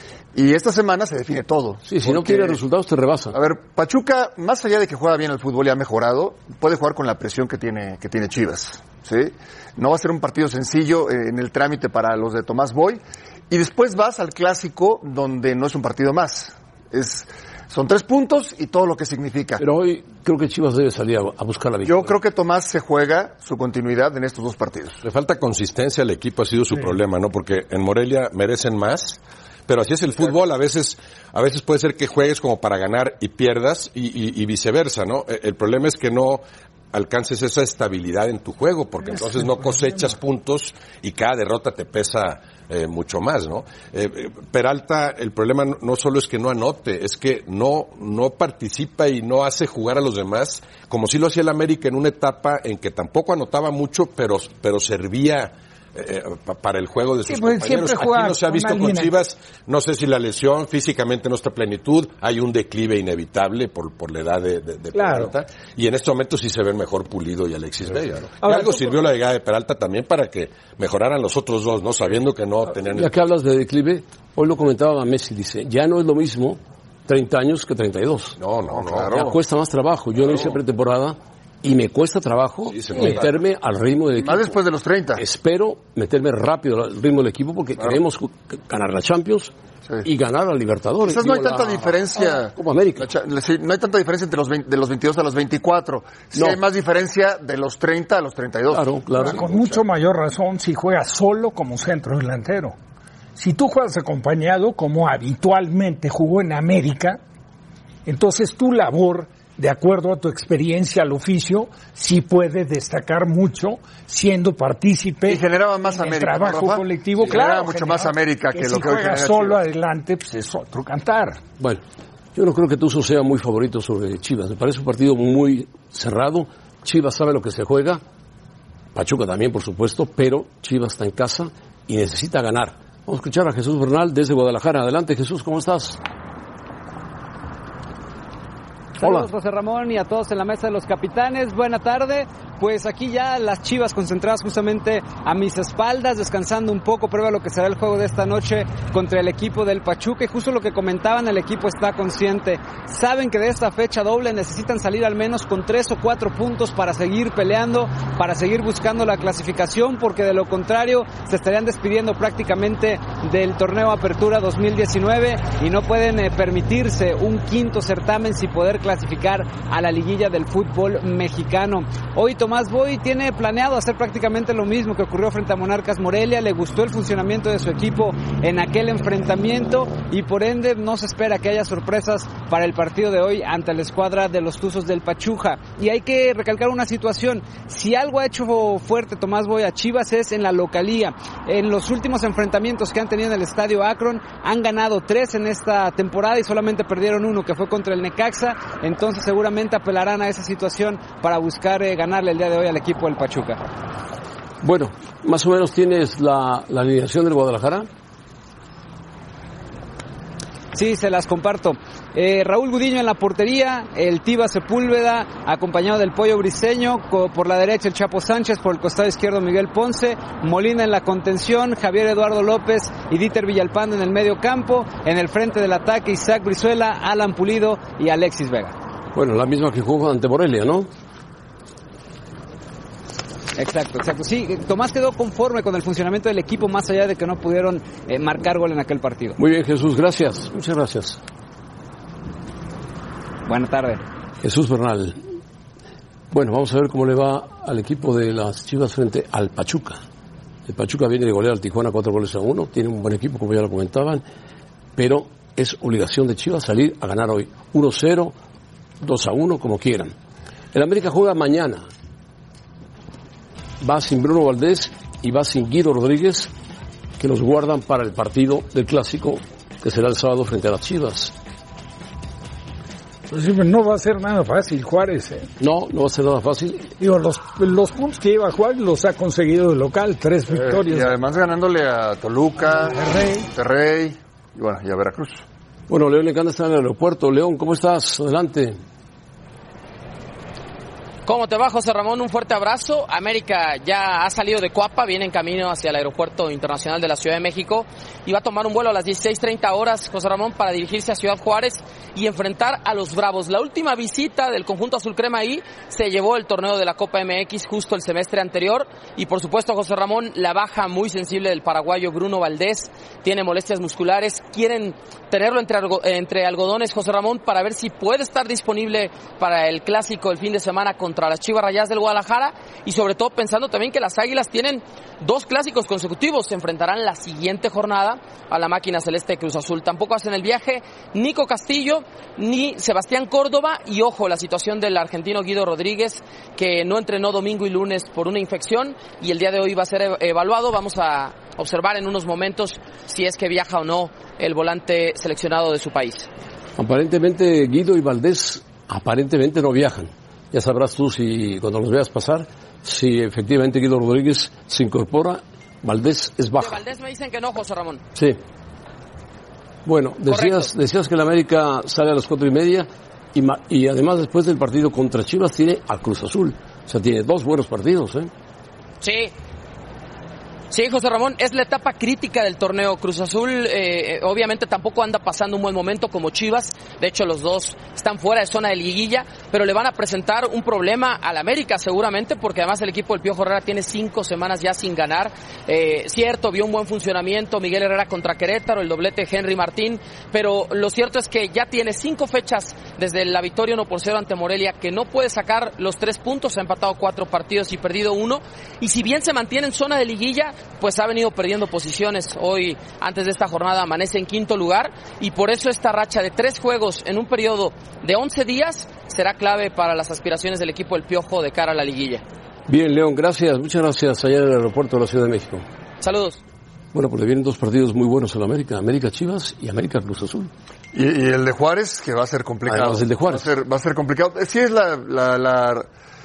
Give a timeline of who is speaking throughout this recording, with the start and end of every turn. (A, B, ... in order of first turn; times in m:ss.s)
0:00.3-0:02.6 A
0:01.8-0:03.4 B
0:03.3-0:19.6 A
0:19.6-0:22.2 B
0:21.8-0:25.0 A
0:25.0-1:13.2 C
0:57.2-0:59.1 D
1:04.9-1:05.3 D
1:08.4-1:09.0 D
1:12.9-1:18.4 B
1:18.4-1:19.4 C
1:18.8-1:19.1 A
1:19.1-1:24.6 B
1:22.7-1:23.4 C
1:24.2-1:25.2 A
1:25.2-1:29.5 B
1:30.0-1:33.1 B
1:31.0-1:38.9 A
1:38.7-1:39.4 B
1:39.2-1:42.8 D
1:43.4-1:47.2 D
1:48.0-2:01.4 D
1:55.3-1:59.6 A
2:02.3-2:08.0 B
2:08.9-2:16.0 B
2:19.0-3:23.6 E
2:19.0-2:19.3 B
3:24.6-3:27.9 B
3:30.7-3:48.8 E
3:49.1-3:50.9 B
3:53.6-3:59.4 E
3:59.4-4:01.2 B
4:03.4-4:04.0 E
4:04.4-4:05.2 B
4:06.3-4:10.0 B
4:10.7-4:14.2 B
4:15.0-4:18.3 B
4:19.0-4:20.1 B
4:20.7-4:21.8 B
4:23.8-4:26.5 B
4:27.2-4:31.3 B
4:33.3-4:35.5 D
4:35.6-4:36.9 B
4:37.0-4:41.1 D
4:40.5-4:45.4 A
4:42.9-4:43.5 D
4:45.9-4:48.8 B
4:51.2-5:46.3 F
5:46.8-5:56.8 B
5:56.6-5:58.0 F
5:58.1-5:58.4 B
5:59.8-6:08.3 B
6:00.3-6:00.7 F
6:09.0-6:09.3 F
6:10.7-6:52.2 F
6:52.7-6:55.6 B
6:56.0-6:56.4 F
6:56.9-7:00.5 B
7:00.9-7:05.9 A
7:02.6-7:03.5 B